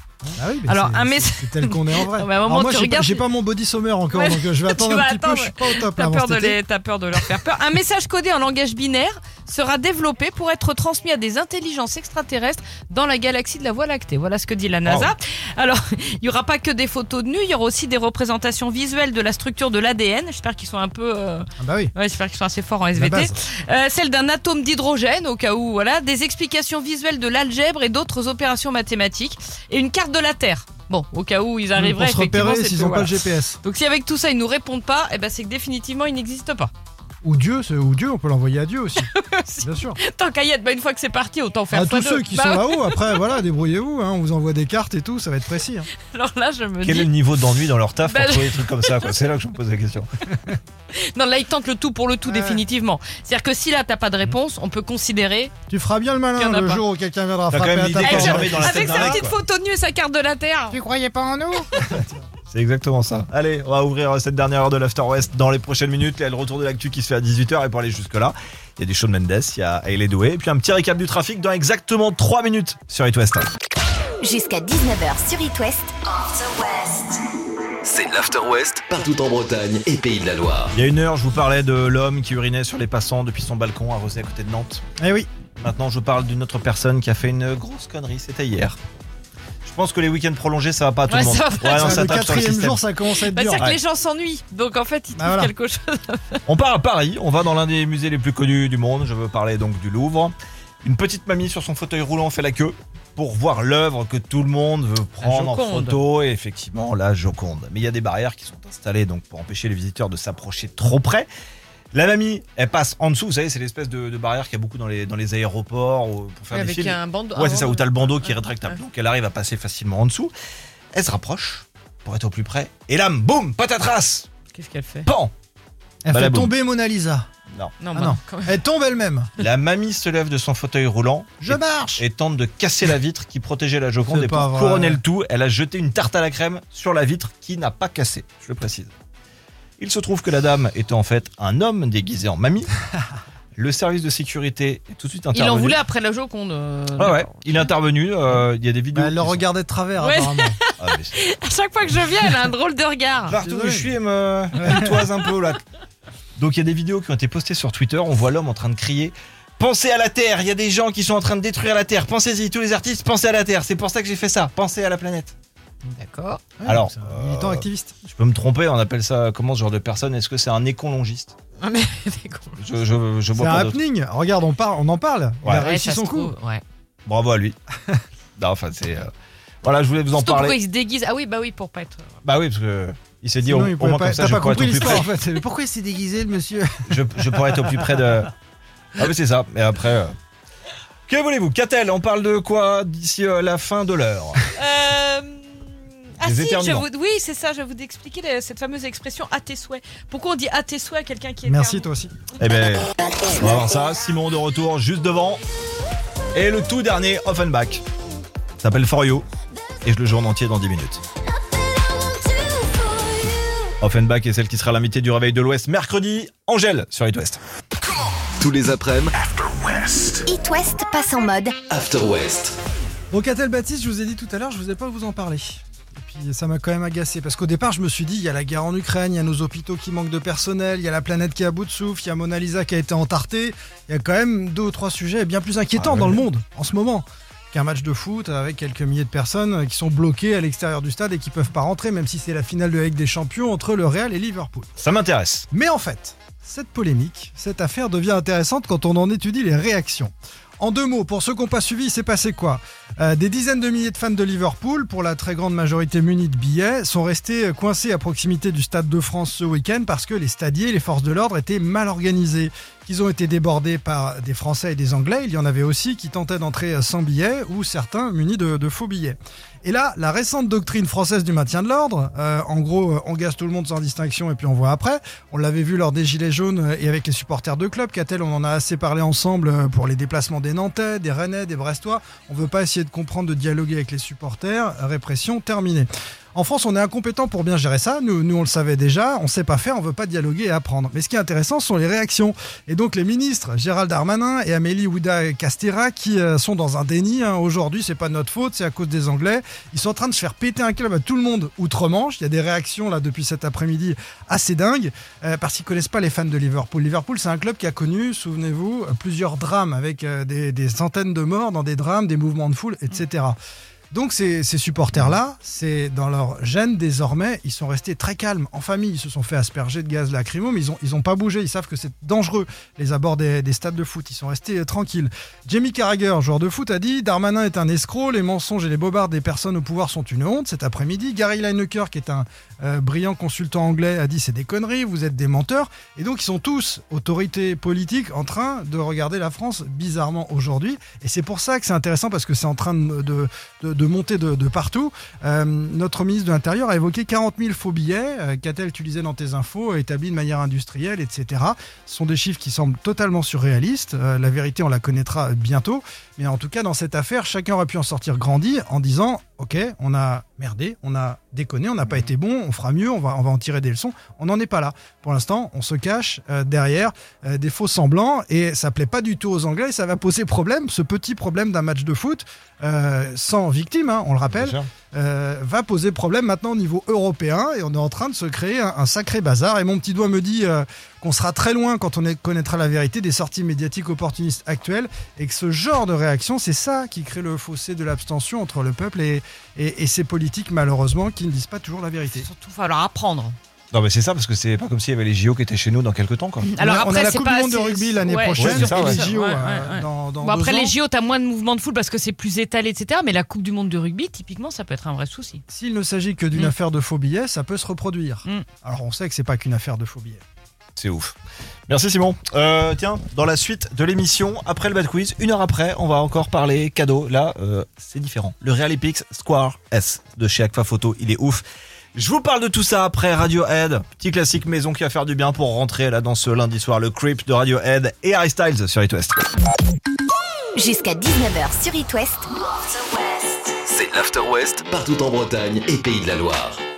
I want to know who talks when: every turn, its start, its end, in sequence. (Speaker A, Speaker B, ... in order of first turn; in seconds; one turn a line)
Speaker A: 0.2-6.6
Speaker B: 0.6-3.2
Speaker B: 4.1-36.7
Speaker C: 14.8-15.1
Speaker A: 21.6-21.9
Speaker A: 22.9-23.3
Speaker A: 31.8-33.6
Speaker A: 37.2-39.1
Speaker B: 39.0-43.2
Speaker A: 39.6-40.0
Speaker A: 41.7-45.9
Speaker B: 46.0-47.1
Speaker C: 46.8-50.1
Speaker B: 48.0-49.1
Speaker B: 51.0-55.5
Speaker A: 52.2-52.6
Speaker A: 55.7-59.2
Speaker B: 56.3-56.8
Speaker C: 57.5-59.4
Speaker B: 58.0-60.8
Speaker A: 60.7-62.2
Speaker C: 62.5-73.5
Speaker D: 74.2-75.9
Speaker E: 76.5-77.2
Speaker E: 77.8-80.7
Speaker C: 80.7-84.8
Speaker A: 85.0-85.3
Speaker C: 85.6-88.8
Speaker C: 89.6-92.8
Speaker B: 91.1-92.4
Speaker A: 91.7-93.7
Speaker B: 93.3-96.4
Speaker A: 95.1-95.5
Speaker C: 96.5-111.3
Speaker B: 105.2-106.0
Speaker C: 111.9-120.3
Speaker B: 116.5-118.8
Speaker C: 120.9-124.3
Speaker B: 124.5-125.1
Speaker C: 125.0-125.3
Speaker A: 126.0-127.3
Speaker C: 126.1-126.5
Speaker B: 127.8-128.6
Speaker A: 127.9-129.3
Speaker C: 129.4-138.9
Speaker A: 131.4-132.0
Speaker A: 134.1-135.0
Speaker C: 139.8-142.7
Speaker C: 143.6-145.8
Speaker B: 145.3-147.7
Speaker C: 147.0-149.4
Speaker A: 148.9-150.6
Speaker B: 150.0-153.4
Speaker C: 150.8-151.2
Speaker C: 153.3-155.6
Speaker A: 153.4-153.9
Speaker A: 154.5-155.1
Speaker C: 156.4-165.3
Speaker B: 165.8-166.4
Speaker A: 166.6-167.9
Speaker C: 166.6-171.3
Speaker B: 171.6-172.6
Speaker C: 172.6-173.8
Speaker A: 173.3-176.3
Speaker C: 175.4-175.7
Speaker B: 175.5-176.6
Speaker C: 177.1-177.6
Speaker C: 178.4-179.1
Speaker C: 179.6-180.6
Speaker B: 180.1-182.1
Speaker C: 182.2-185.1
Speaker A: 183.4-187.8
Speaker C: 186.9-188.3
Speaker C: 189.0-190.1
Speaker C: 191.1-194.4
Speaker B: 194.6-201.9
Speaker C: 196.2-196.8
Speaker A: 201.4-202.1
Speaker C: 202.4-205.4
Speaker C: 206.3-207.8
Speaker C: 208.6-209.2
Speaker C: 209.8-211.0
Speaker C: 213.8-217.4
Speaker E: 218.4-220.3
Speaker D: 220.2-221.6
Speaker E: 221.6-222.6
Speaker A: 223.1-244.7
Speaker C: 235.8-236.2
Speaker C: 244.8-245.5
Speaker A: 245.5-313.4
Speaker A: 313.9-392.3
Speaker C: 374.3-374.7
Speaker B: 392.1-393.4
Speaker C: 393.7-396.5
Speaker B: 396.4-405.4
Speaker A: 396.6-400.7
Speaker C: 398.3-399.0
Speaker A: 405.5-410.2
Speaker C: 410.8-411.1
Speaker C: 411.7-421.4
Speaker C: 421.9-429.2
Speaker D: 430.5-432.3
Speaker E: 433.0-436.6